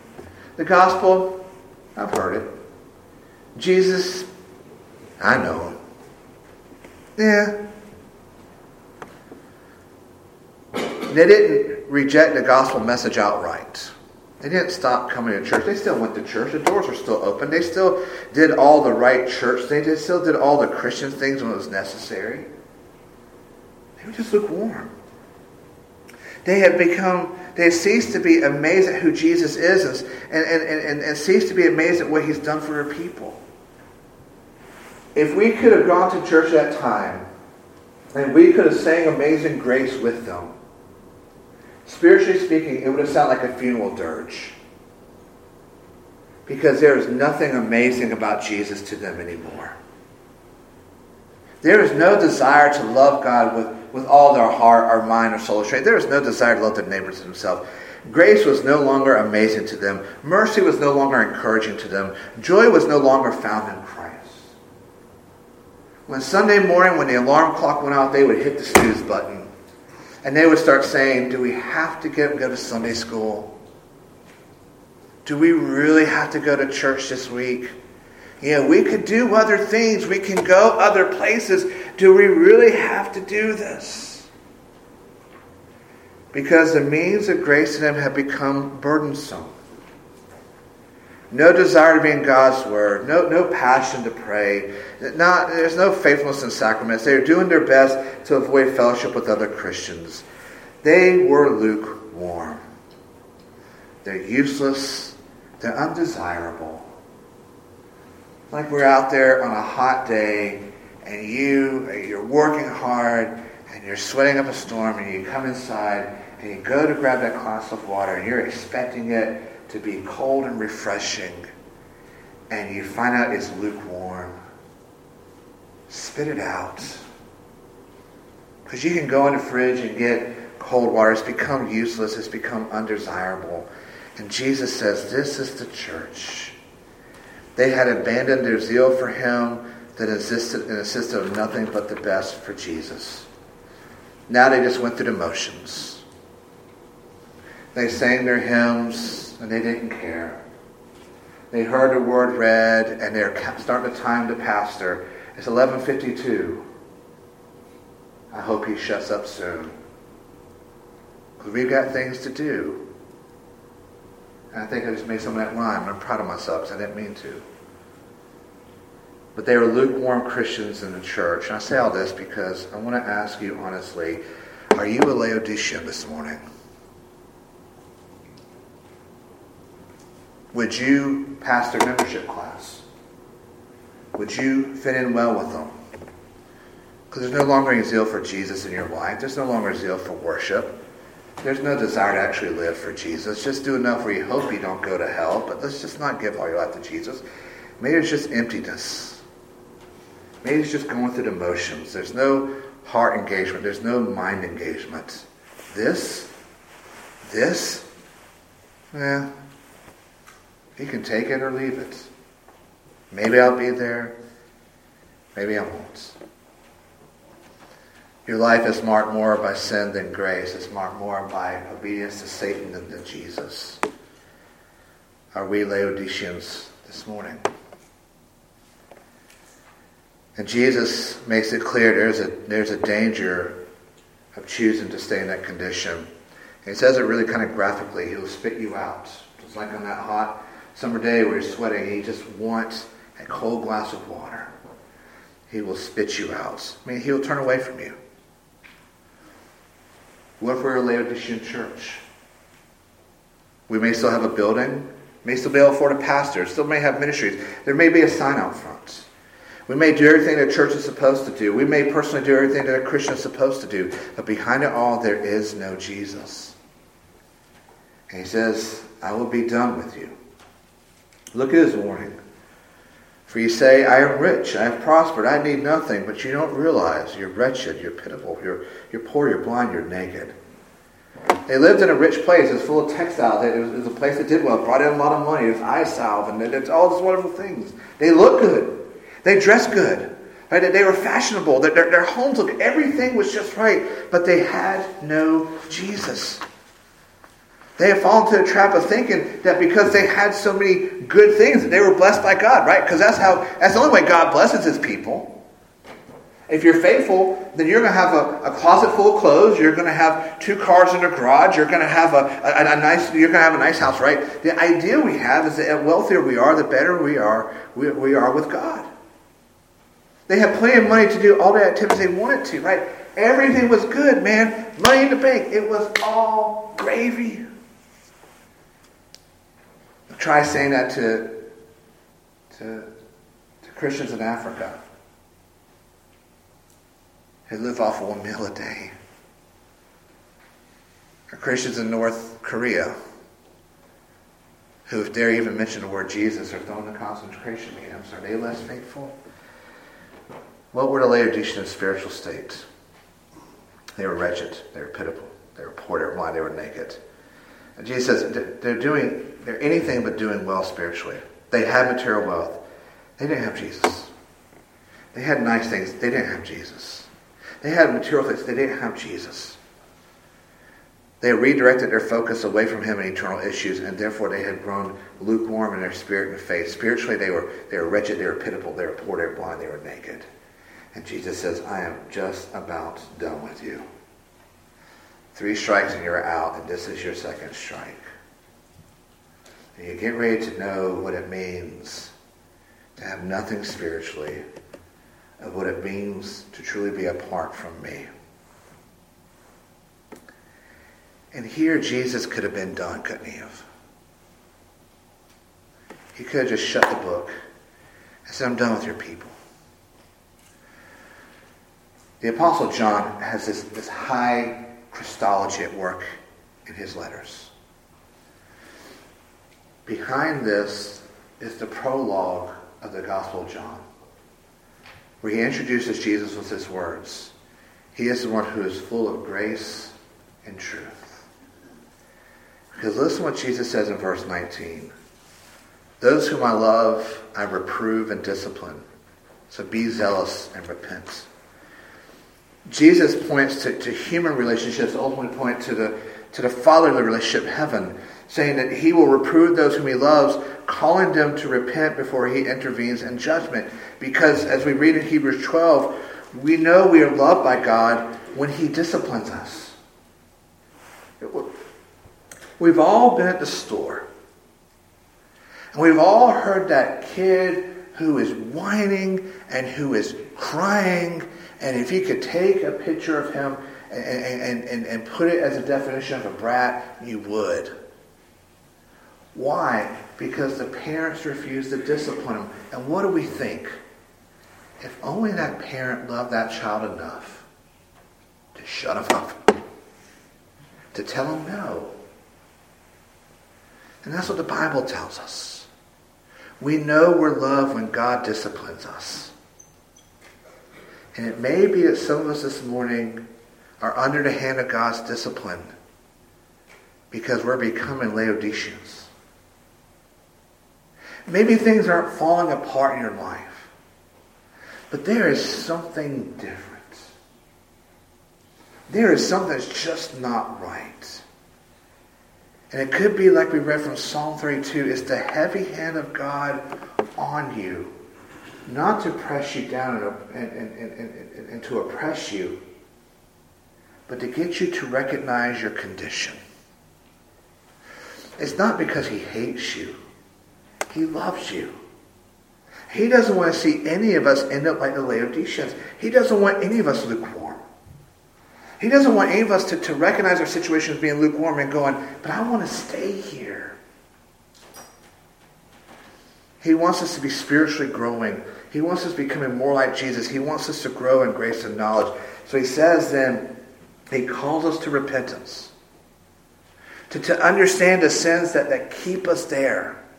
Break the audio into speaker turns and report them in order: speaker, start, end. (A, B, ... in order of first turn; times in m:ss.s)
0:00.6-0:01.4 A
0:02.0-0:02.5 A
0:03.5-0:04.3 A
0:05.2-0:05.8 A
0:07.2-0:07.5 A
0:11.1-0:22.5 A
0:24.0-0:24.9 A
0:26.4-0:33.4 A
0:35.1-0:37.2 A
0:38.1-0:40.5 A
0:41.8-0:44.6 A
0:46.4-0:49.8 A
0:51.6-1:04.5 A
1:06.1-1:09.5 A
1:10.2-1:13.5 A
1:15.2-1:17.7 A
1:18.4-1:24.3 A
1:26.3-1:29.5 A
1:31.3-1:40.2 A
1:40.8-1:42.6 A
1:44.0-1:46.9 A
1:48.5-2:01.5 A
2:02.5-2:04.3 A
2:05.9-2:07.0 A
2:08.7-2:16.6 A
2:17.6-2:23.3 A
2:24.3-2:26.0 A
2:27.7-2:30.4 A
2:31.5-2:36.6 A
2:38.3-2:39.7 A
2:41.4-2:42.8 A
2:44.5-2:47.4 A
2:49.3-2:54.2 A
2:54.7-2:56.4 A
3:00.5-3:02.8 A
3:04.1-3:05.7 A
3:07.1-3:10.8 A
3:11.4-3:17.2 A
3:17.8-3:19.2 A
3:20.4-3:26.3 A
3:27.2-3:27.8 A
3:28.9-3:29.3 A
3:30.8-3:32.1 A
3:33.1-3:34.1 A
3:35.3-3:36.2 A
3:38.2-3:43.8 A
3:45.3-3:47.4 A
3:50.4-3:53.6 A
3:54.3-3:56.1 A
3:56.6-4:04.5 A
4:05.5-4:08.0 A
4:10.4-4:12.0 A
4:13.7-4:19.1 A
4:19.7-4:26.6 A
4:28.1-4:30.1 A
4:31.3-4:32.2 A
4:33.3-4:40.3 A
4:41.5-4:56.4 A
4:57.8-5:05.3 A
5:06.5-5:18.9 A
5:20.3-5:27.4 A
5:30.1-5:31.4 A
5:32.5-5:32.9 A
5:33.6-5:34.8 A
5:37.5-5:38.9 A
5:41.3-5:42.9 A
5:44.9-5:49.1 A
5:50.7-5:52.6 A
5:54.0-5:57.0 A
5:57.8-6:02.6 A
6:03.2-6:04.1 A
6:05.1-6:07.1 A
6:07.6-6:09.6 A
6:11.2-6:20.2 A
6:20.9-6:23.8 A
6:25.3-6:28.0 A
6:29.8-6:32.1 A
6:33.0-6:34.4 A
6:35.4-6:38.1 A
6:41.3-6:43.7 A
6:46.1-6:47.3 A
6:48.2-6:49.3 A
6:52.2-6:56.0 A
6:56.6-6:57.5 A
6:59.8-7:03.8 A
7:05.2-7:07.3 A
7:07.9-7:09.9 A
7:10.4-7:11.3 A
7:12.7-7:14.9 A
7:16.0-7:18.8 A
7:19.5-7:21.3 A
7:22.7-7:39.8 A
7:41.2-7:41.5 A
7:42.6-7:44.1 A
7:45.7-7:57.7 A
7:59.3-8:03.7 A
8:04.8-8:07.5 A
8:08.5-8:09.4 A
8:10.9-8:11.9 A
8:14.0-8:15.7 A
8:16.6-8:19.3 A
8:21.1-8:23.2 A
8:23.8-8:25.7 A
8:27.1-8:29.1 A
8:31.3-8:33.7 A
8:34.9-8:37.1 A
8:38.9-8:41.2 A
8:42.7-8:46.6 A
8:47.2-8:47.9 A
8:48.6-8:52.6 A
8:54.1-8:56.4 A
8:58.4-9:00.0 A
9:00.9-9:01.7 A
9:02.9-9:07.6 A
9:08.8-9:13.8 A
9:16.6-9:23.4 A
9:24.1-9:25.7 A
9:27.1-9:30.0 A